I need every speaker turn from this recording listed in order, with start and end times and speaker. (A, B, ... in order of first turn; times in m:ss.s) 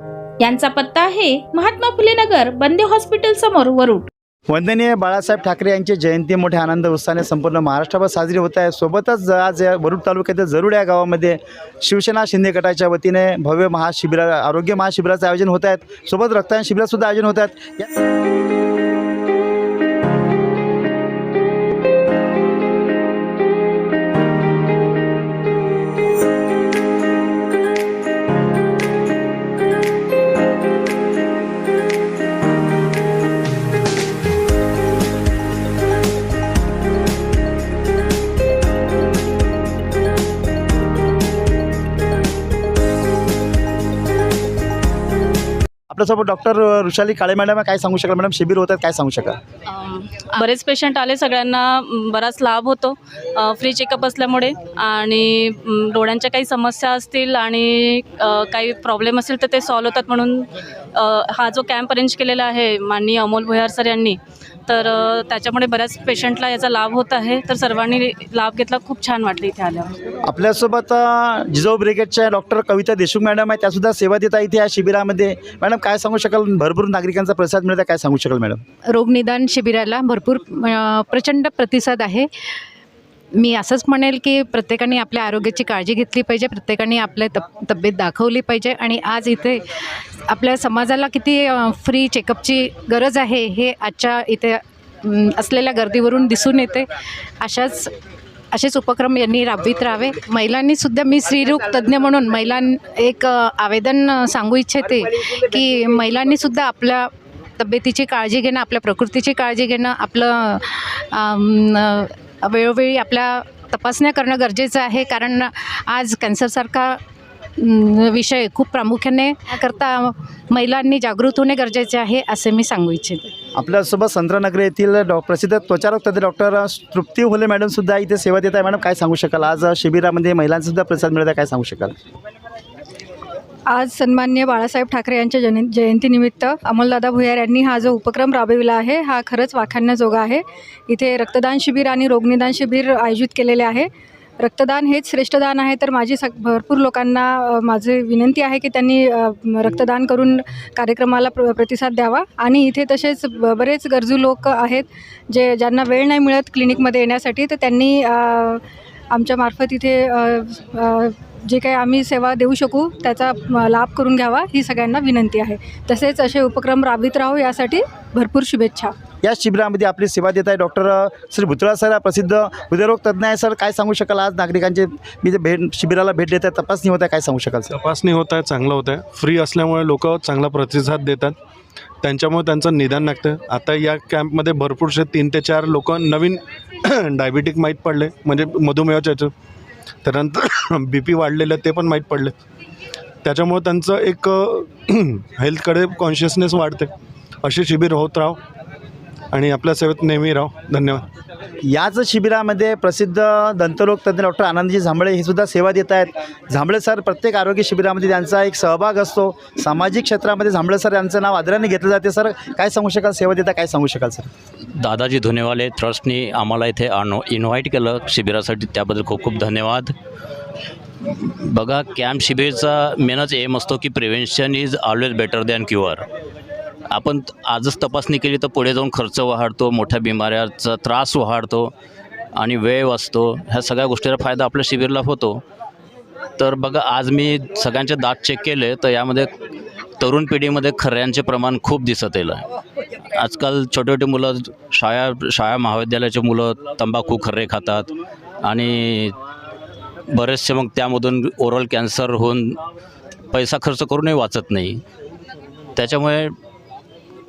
0:00.4-0:04.1 A
0:04.5-0:17.9 B
0:45.9-0:49.4 B
0:49.7-1:10.0 C
1:10.3-1:18.6 B
1:18.9-1:22.3 D
1:23.4-1:29.7 D
1:30.3-1:36.9 D
1:37.4-1:37.9 D
1:38.5-1:57.0 D
1:57.6-2:03.3 D
2:03.6-2:11.9 B
2:13.7-2:48.9 E
2:49.2-2:57.7 B
2:57.7-3:01.4 F
3:02.0-3:09.3 F
3:10.0-3:12.4 F
3:13.2-3:16.9 F
3:17.4-3:18.4 F
3:19.3-3:21.0 F
3:21.7-3:34.3 B
3:34.8-3:39.9 G
3:41.4-3:46.0 G
3:46.9-3:51.7 G
3:52.4-3:55.4 G
3:56.4-3:59.3 G
4:00.0-4:02.4 G
4:03.2-4:07.9 G
4:08.4-4:09.2 G
4:10.1-4:12.6 G
4:13.3-4:14.8 G
4:15.8-4:16.3 G